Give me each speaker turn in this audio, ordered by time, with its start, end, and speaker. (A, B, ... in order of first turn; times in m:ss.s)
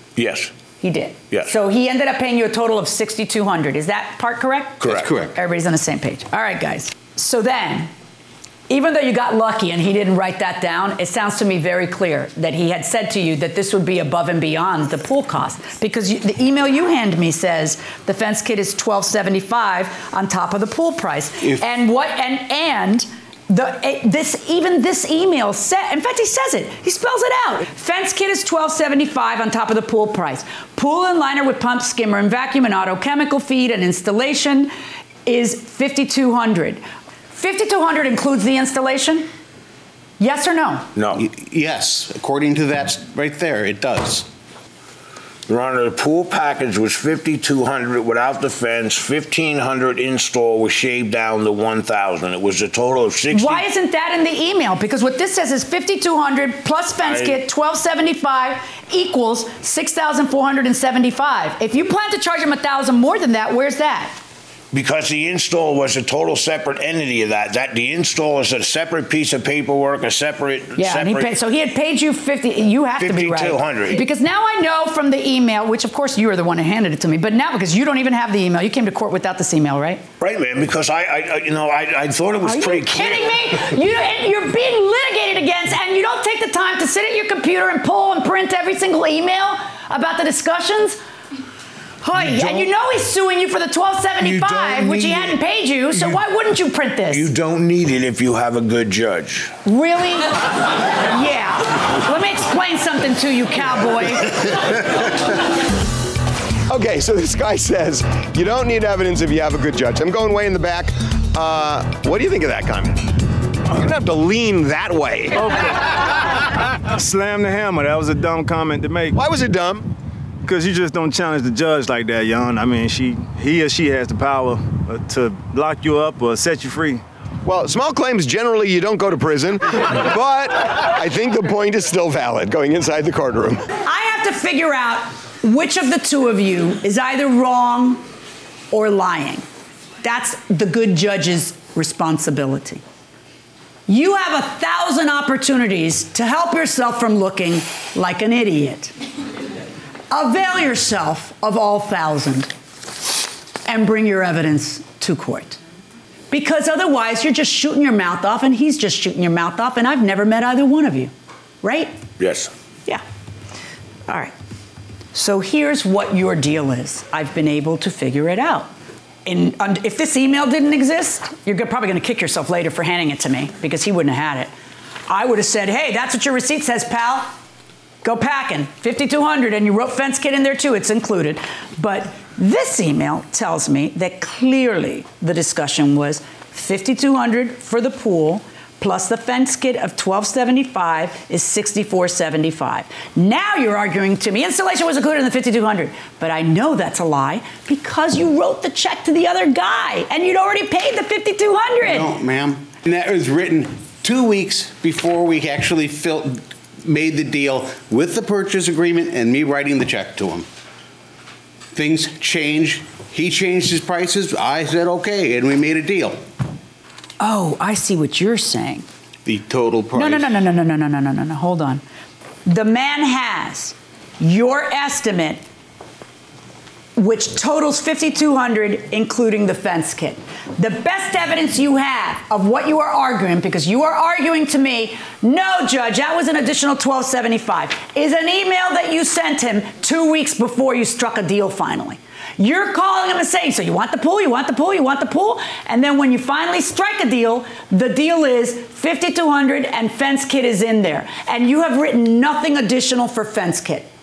0:00.2-0:00.5 A
0:00.8-0:07.9 B
0:04.8-0:05.1 A
0:04.9-0:05.3 C
0:08.7-0:34.7 B
0:35.2-0:36.8 B
0:37.3-0:39.3 B
0:40.2-0:40.9 B
0:40.9-0:41.2 A
0:41.1-0:44.3 C
0:45.5-0:53.6 A
0:53.3-1:04.2 B
0:57.0-0:57.4 A
1:04.7-1:11.3 A
1:10.8-1:20.0 B
1:13.0-1:14.0 A
1:20.2-1:23.6 A
1:22.4-1:31.0 B
1:32.0-1:37.3 B
1:32.1-1:32.7 A
1:34.2-1:35.4 A
1:35.9-1:36.2 A
1:37.1-1:39.5 A
1:39.6-1:40.3 B
1:41.0-1:44.6 B
1:46.7-1:53.0 D
1:53.7-1:55.4 D
1:57.0-1:59.2 E
1:59.1-1:59.9 D
2:00.5-2:07.0 E
2:07.4-2:13.6 D
2:13.8-2:18.0 B
2:18.7-2:19.4 B
2:20.0-2:22.8 B
2:23.9-2:28.9 B
2:30.1-2:32.5 B
2:33.6-2:35.6 B
2:36.3-2:41.1 B
2:41.6-2:41.9 B
2:42.2-2:42.5 A
2:44.1-2:44.3 B
2:45.1-2:48.7 B
2:49.2-2:54.5 B
2:55.1-2:57.3 B
2:58.0-3:22.1 B
3:21.8-3:30.5 C
3:31.7-3:36.2 C
3:37.2-3:38.8 B
3:39.2-3:40.3 C
3:39.9-3:41.8 B
3:42.4-3:45.4 B
3:47.0-4:13.9 B